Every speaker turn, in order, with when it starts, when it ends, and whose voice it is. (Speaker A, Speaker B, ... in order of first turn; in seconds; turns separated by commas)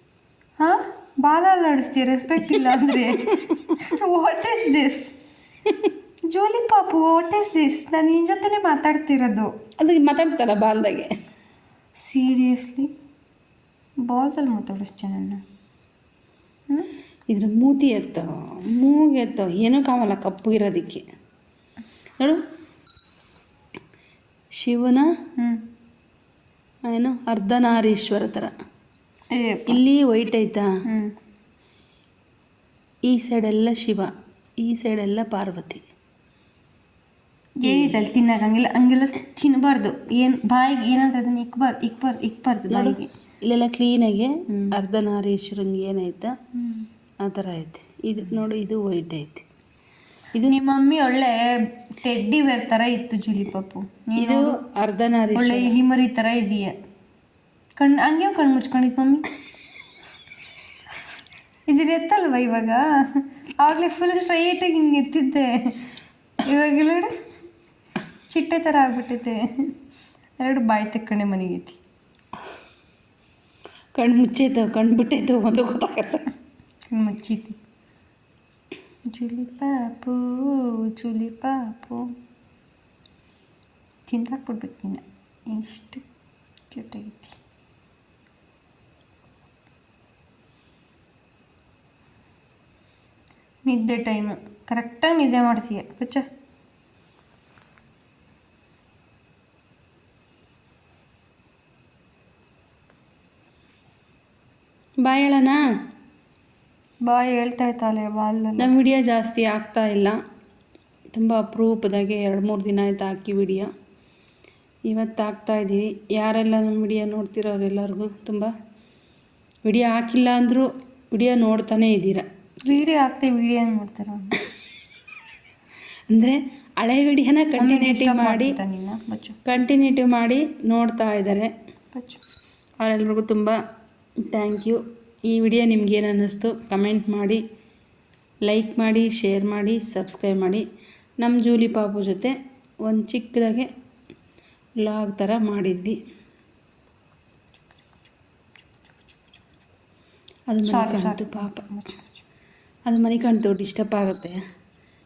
Speaker A: 0.6-5.1, Speaker A: 6.3-9.5, Speaker B: 9.8-11.1, Speaker A: 12.0-12.9, Speaker A: 14.1-15.4, Speaker B: 17.3-21.0, Speaker B: 24.6-25.1, Speaker B: 26.9-28.5, Speaker A: 29.3-29.8, Speaker B: 29.7-30.7, Speaker A: 30.8-31.1, Speaker B: 33.1-34.1, Speaker B: 34.6-35.8, Speaker A: 37.6-43.1, Speaker B: 37.6-38.0, Speaker B: 42.7-46.3, Speaker A: 44.5-44.7, Speaker A: 46.6-46.9, Speaker B: 47.2-49.4, Speaker A: 50.4-54.5, Speaker B: 54.2-55.7, Speaker A: 55.3-56.7, Speaker A: 57.8-59.2, Speaker A: 61.7-65.7, Speaker A: 66.4-67.1, Speaker A: 68.3-69.7, Speaker A: 70.4-71.8, Speaker B: 73.9-76.2, Speaker A: 76.9-77.6, Speaker A: 79.1-82.0, Speaker A: 84.1-86.0, Speaker A: 86.7-87.4, Speaker A: 93.7-96.2, Speaker B: 105.0-105.6, Speaker A: 107.0-108.8, Speaker B: 108.6-110.1, Speaker B: 111.1-113.7, Speaker B: 114.9-118.5, Speaker B: 119.7-122.8, Speaker A: 122.7-124.3, Speaker B: 126.1-128.5, Speaker A: 127.6-129.4, Speaker B: 129.4-131.5, Speaker A: 131.9-132.2, Speaker B: 132.8-133.6, Speaker B: 134.3-137.4, Speaker B: 138.4-140.6, Speaker B: 141.2-143.7, Speaker B: 144.8-146.0, Speaker B: 150.5-151.6, Speaker A: 150.6-152.2, Speaker B: 152.9-154.3